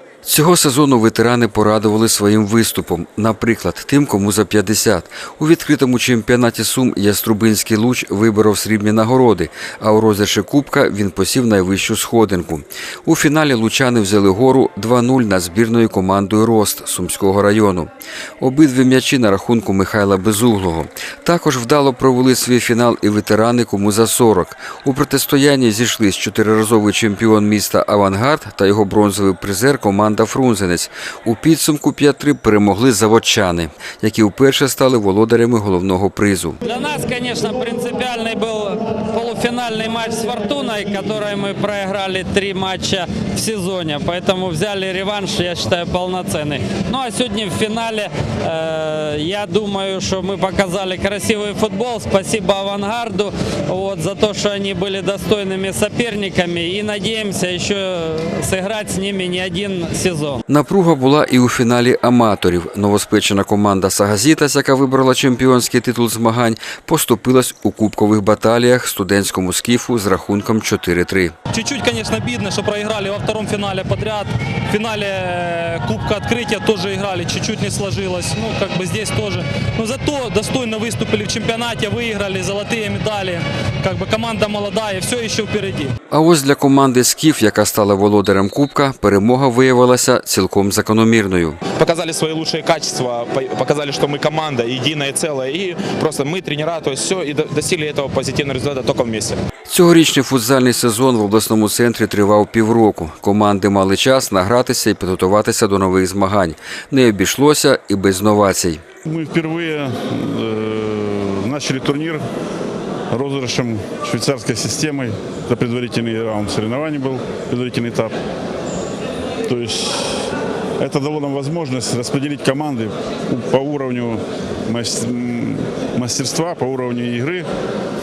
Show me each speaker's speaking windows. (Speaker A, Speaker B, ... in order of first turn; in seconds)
Speaker A: 0.2-36.6, 60.5-71.3, 86.1-91.6, 99.7-108.8
Speaker B: 36.6-60.4
Speaker C: 71.5-85.9
Speaker D: 91.7-99.4
Speaker E: 109.2-109.9, 110.4-112.2, 113.1-118.1, 119.5-127.4